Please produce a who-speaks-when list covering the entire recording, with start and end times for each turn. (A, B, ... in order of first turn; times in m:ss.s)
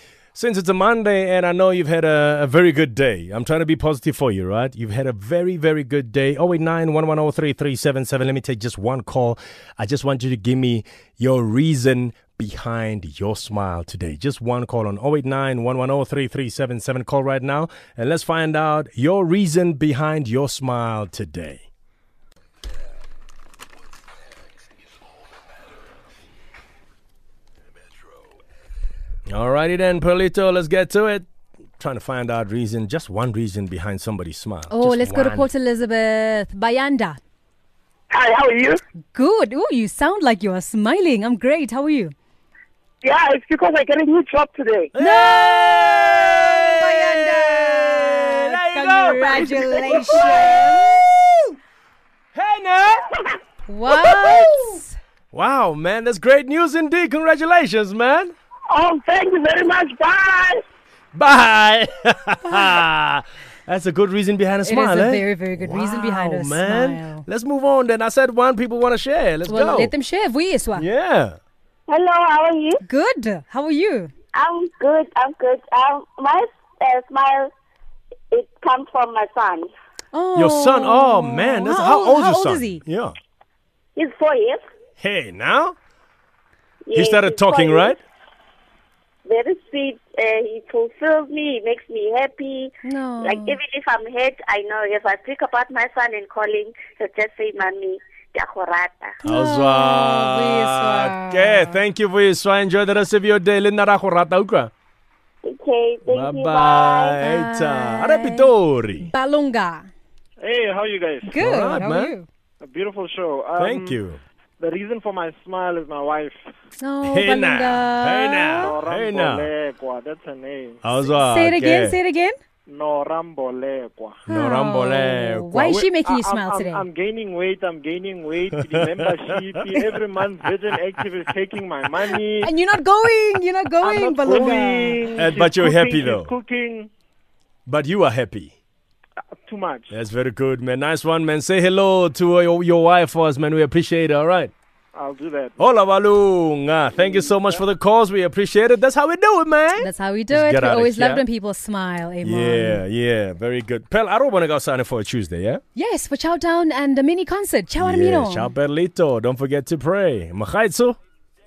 0:00.3-0:21.6 A
0:29.3-0:31.3 A
0:31.8-0:35.5 A
0:34.7-0:37.2 B
0:38.2-0:38.4 C
0:39.1-0:42.1 B
0:43.2-0:44.6 C
0:43.9-0:44.9 D
0:44.9-0:51.6 A
0:45.0-0:51.0 B
0:52.3-0:53.0 A
0:53.7-0:55.0 B
0:55.3-0:58.3 A
0:58.8-1:00.4 D
0:59.2-1:00.5 C
1:01.1-1:09.9 A
1:04.6-1:07.2 B
1:09.5-1:10.9 B
1:10.8-1:11.4 A
1:11.9-1:12.8 C
1:12.8-1:14.1 B
1:14.3-1:17.5 C
1:18.3-1:19.7 C
1:20.1-1:22.8 B
1:20.3-1:23.2 A
1:24.0-1:24.6 C
1:25.0-1:25.8 A
1:26.8-1:28.0 C
1:26.9-1:28.0 A
1:29.2-1:39.2 C
1:32.8-1:33.6 B
1:39.2-1:41.8 B
1:39.2-1:44.7 A
1:45.4-1:47.2 C
1:46.0-1:49.1 A
1:47.2-1:48.5 B
1:49.0-1:49.9 B
1:50.4-1:51.4 E
1:51.2-1:52.3 B
1:51.4-1:52.1 A
1:52.6-1:54.0 E
1:53.6-1:54.2 A
1:54.6-1:56.4 E
1:56.8-1:58.7 B
1:57.0-1:59.5 A
1:58.6-2:00.8 E
2:00.8-2:02.0 A
2:01.1-2:02.4 B
2:02.7-2:04.2 E
2:04.2-2:05.9 A
2:04.3-2:06.8 B
2:05.6-2:12.5 E
2:08.5-2:09.9 A
2:12.4-2:15.1 B
2:13.8-2:16.9 E
2:15.1-2:16.3 A
2:17.6-2:18.5 A
2:19.4-2:19.9 E
2:19.9-2:24.5 A
2:24.9-2:25.6 E
2:25.6-2:31.2 A
2:29.8-2:32.8 B
2:32.2-2:35.6 A
2:35.7-2:38.5 B
2:37.8-2:41.0 A